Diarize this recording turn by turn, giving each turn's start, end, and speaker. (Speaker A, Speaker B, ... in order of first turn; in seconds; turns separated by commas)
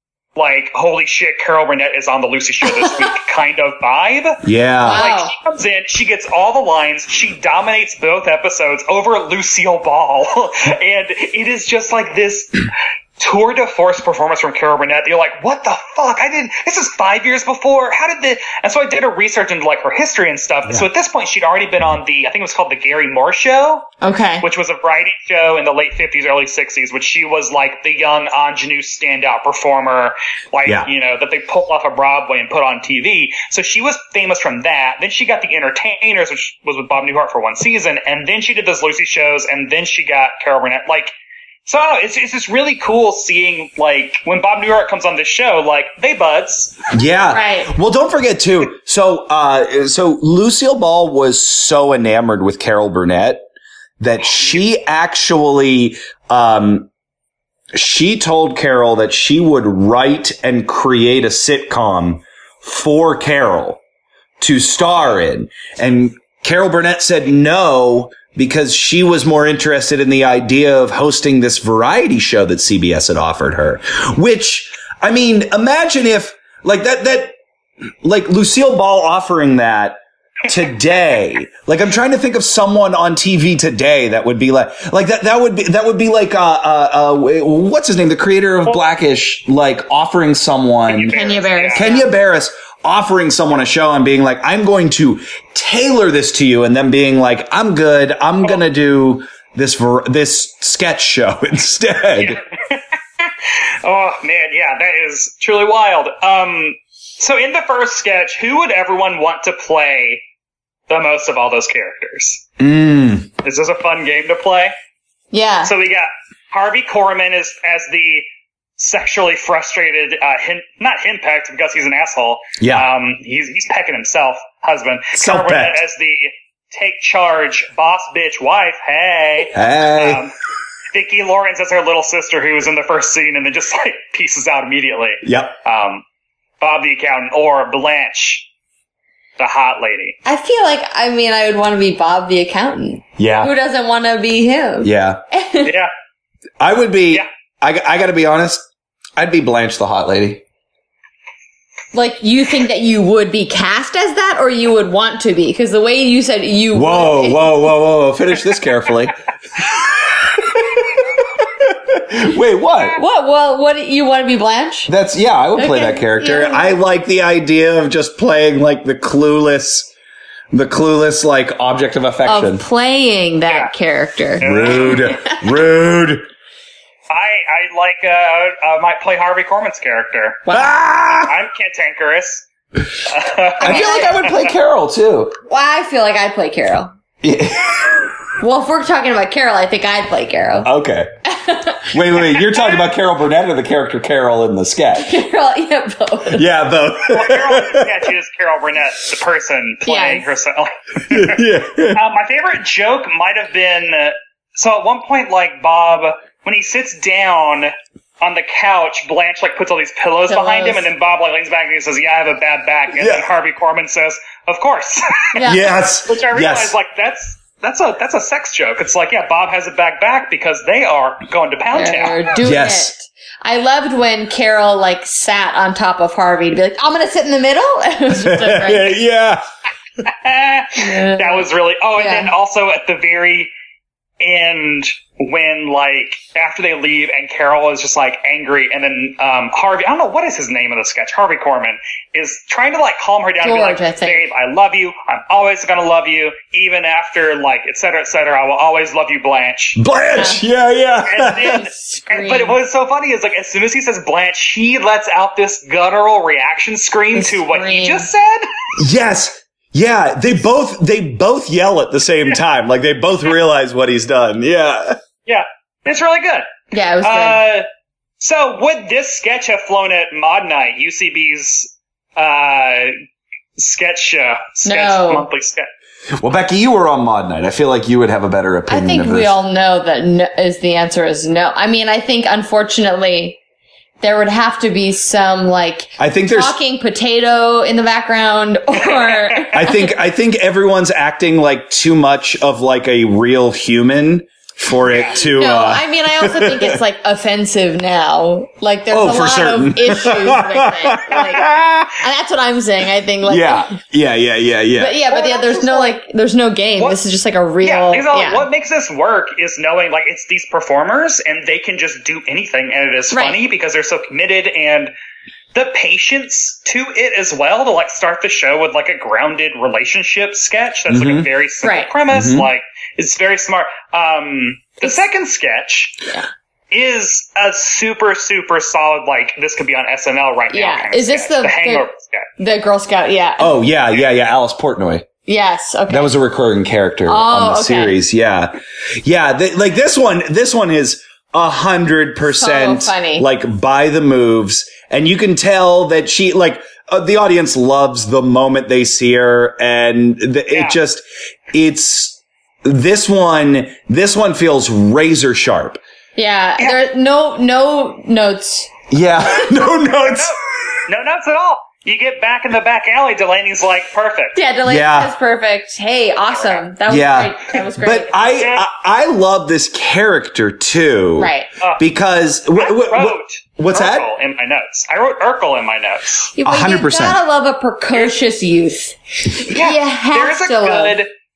Speaker A: 0.3-41.1, Speaker B: 4.4-5.0, Speaker C: 4.8-5.3, Speaker C: 24.0-24.4, Speaker A: 41.7-46.8, Speaker B: 46.9-53.4, Speaker C: 47.3-47.7, Speaker B: 54.0-56.9, Speaker B: 57.7-63.8, Speaker B: 64.4-77.3, Speaker B: 78.0-91.2, Speaker A: 90.9-91.9, Speaker C: 91.1-92.1, Speaker B: 91.7-102.4, Speaker A: 102.2-103.2, Speaker A: 103.8-110.2, Speaker A: 110.9-112.5, Speaker B: 112.6-113.3, Speaker A: 113.4-114.7, Speaker C: 115.3-115.7, Speaker A: 115.6-118.2, Speaker A: 118.8-130.3, Speaker B: 122.6-122.9, Speaker B: 125.1-125.8, Speaker B: 129.5-130.2, Speaker A: 130.9-136.0, Speaker B: 135.2-135.5, Speaker A: 136.6-138.5, Speaker A: 139.4-140.2, Speaker C: 140.2-145.7, Speaker B: 143.2-143.5, Speaker B: 144.8-145.2, Speaker A: 145.6-145.9, Speaker B: 146.6-148.7, Speaker B: 149.2-150.4, Speaker C: 151.9-157.5, Speaker B: 156.7-163.0, Speaker C: 163.0-164.9, Speaker B: 164.9-169.9, Speaker C: 165.6-166.8, Speaker B: 170.5-172.6, Speaker C: 172.2-175.4, Speaker A: 174.4-175.2, Speaker B: 174.4-176.2, Speaker A: 177.1-180.4, Speaker C: 180.5-180.8, Speaker B: 180.5-181.3, Speaker A: 181.2-182.4, Speaker A: 183.1-184.5, Speaker C: 183.6-184.2, Speaker B: 183.6-185.3, Speaker C: 185.5-186.9, Speaker B: 187.2-188.1, Speaker C: 188.4-190.7, Speaker B: 190.6-191.1, Speaker C: 191.2-191.9, Speaker B: 191.9-195.2, Speaker C: 194.9-196.4, Speaker B: 196.3-198.0, Speaker A: 197.1-215.4, Speaker C: 199.8-200.2, Speaker B: 201.1-202.0, Speaker C: 210.3-210.9, Speaker B: 213.0-213.2, Speaker C: 215.3-215.7, Speaker B: 215.4-216.7, Speaker A: 216.1-222.3, Speaker C: 221.7-229.0, Speaker B: 222.4-222.9, Speaker B: 228.2-229.4, Speaker A: 230.0-233.5, Speaker C: 230.8-232.3, Speaker A: 234.2-249.8, Speaker C: 243.4-244.2, Speaker B: 249.8-251.6, Speaker C: 250.2-250.4, Speaker A: 251.1-258.4, Speaker C: 251.4-252.6, Speaker C: 257.1-258.1, Speaker B: 258.8-265.0, Speaker A: 265.2-267.6, Speaker C: 266.7-267.4, Speaker A: 268.2-272.9, Speaker A: 273.6-275.7, Speaker C: 274.6-275.3, Speaker B: 276.2-279.3, Speaker C: 278.7-283.4, Speaker C: 284.0-289.9, Speaker B: 286.0-286.5, Speaker A: 288.8-289.5, Speaker B: 289.5-296.8, Speaker A: 294.9-295.2, Speaker C: 295.2-303.7, Speaker B: 298.9-301.9, Speaker B: 303.2-305.0, Speaker C: 304.8-308.4, Speaker A: 305.1-306.0, Speaker A: 307.6-314.9, Speaker C: 313.1-313.4, Speaker A: 315.5-326.1, Speaker B: 320.9-321.3, Speaker C: 321.6-321.9, Speaker B: 322.1-322.5, Speaker A: 326.7-332.3, Speaker C: 330.5-331.9, Speaker C: 332.4-333.5, Speaker B: 333.4-335.1, Speaker C: 335.3-336.1, Speaker B: 335.9-355.8, Speaker C: 337.1-338.0, Speaker C: 342.3-343.2, Speaker A: 350.5-350.8, Speaker C: 356.2-358.7, Speaker B: 358.9-360.4, Speaker A: 359.8-364.4, Speaker C: 364.3-368.2, Speaker B: 364.6-365.1, Speaker A: 366.3-366.7, Speaker B: 366.9-374.1, Speaker A: 368.3-368.7, Speaker C: 371.2-371.5, Speaker A: 372.5-376.3, Speaker C: 376.3-381.0, Speaker B: 376.4-377.2, Speaker A: 379.5-381.1